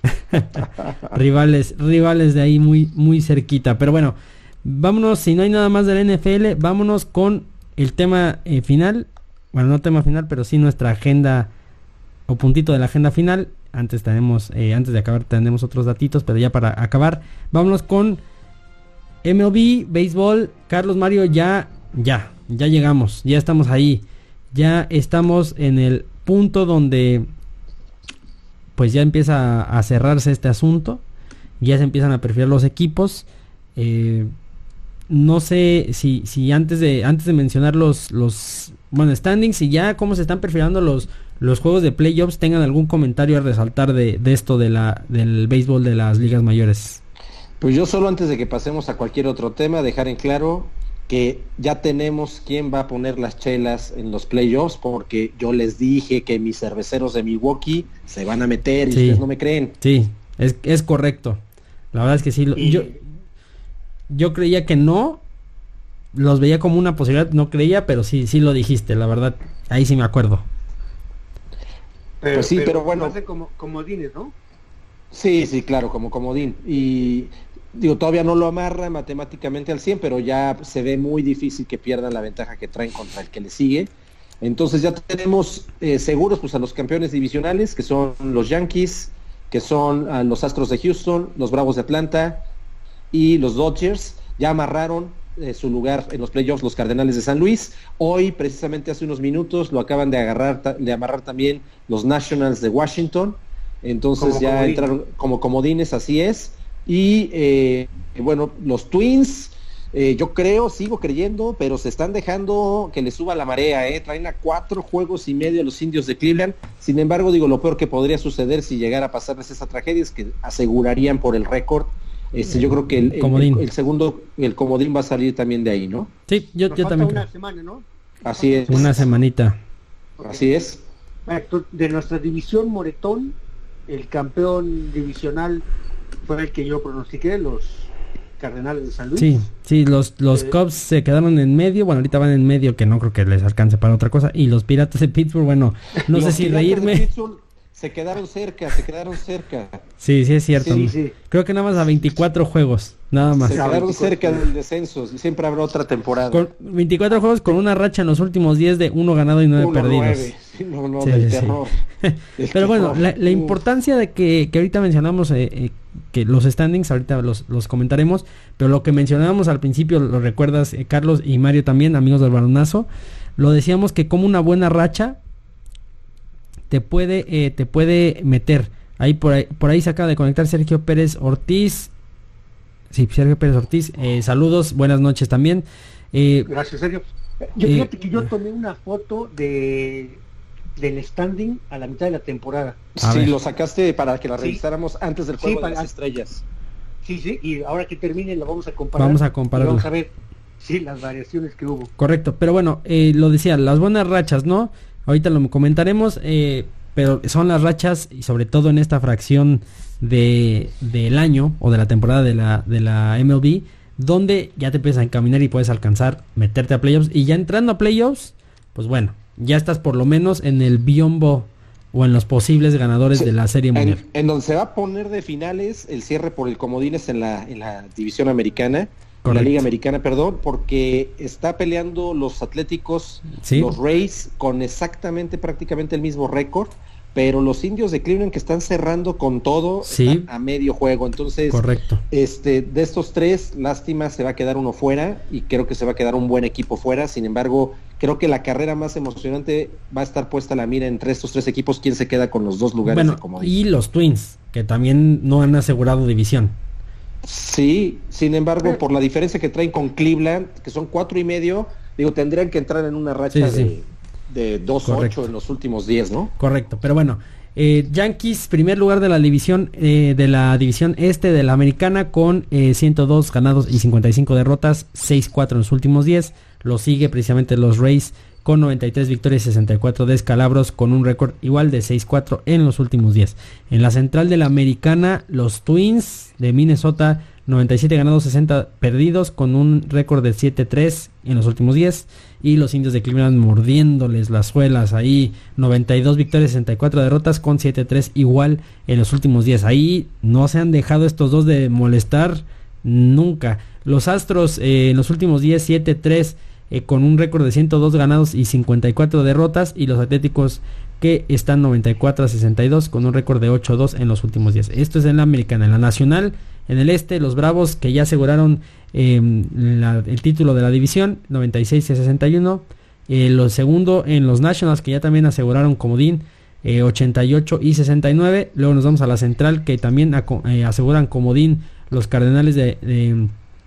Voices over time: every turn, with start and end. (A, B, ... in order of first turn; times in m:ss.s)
0:00.3-0:11.5 A
0:12.3-0:18.2 A
0:19.2-0:27.3 A
0:28.8-0:31.0 A
0:31.6-0:34.3 A
0:35.1-0:47.0 A
0:47.6-0:59.8 B
0:58.9-0:59.2 A
0:59.8-1:01.4 A
1:01.9-1:03.0 A
1:02.6-1:03.0 C
1:04.1-1:05.2 A
1:06.1-1:10.4 A
1:12.2-1:14.4 C
1:12.3-1:13.2 B
1:15.1-1:32.5 B
1:33.1-2:06.1 B
1:44.2-1:44.9 C
2:02.5-2:03.6 A
2:06.3-2:07.2 A
2:06.7-2:09.1 C
2:08.2-2:09.1 B
2:08.7-2:09.6 A
2:10.2-2:10.4 C
2:10.2-2:10.8 B
2:11.3-2:15.6 C
2:16.2-2:19.4 C
2:19.2-2:27.1 A
2:26.1-2:29.8 B
2:30.0-2:33.7 A
2:30.6-2:31.2 C
2:33.4-2:36.4 B
2:33.5-2:34.5 C
2:36.3-2:40.3 A
2:39.6-2:41.8 B
2:41.0-2:55.2 A
2:42.4-2:43.6 B
2:56.7-3:01.9 A
3:02.9-3:06.5 A
3:06.5-3:10.2 C
3:07.6-3:08.3 A
3:10.8-3:12.8 C
3:13.0-3:16.4 B
3:13.0-3:13.3 A
3:15.4-3:15.9 C
3:17.0-3:21.9 C
3:19.0-3:19.9 A
3:22.0-3:44.0 A
3:43.1-4:13.6 B
3:49.2-3:49.6 A
3:53.4-3:53.8 A
3:59.8-4:00.3 A
4:01.5-4:02.0 A
4:12.8-4:16.6 A
4:17.2-4:26.3 B
4:23.3-4:23.7 A
4:24.8-4:25.2 A
4:26.4-5:33.3 A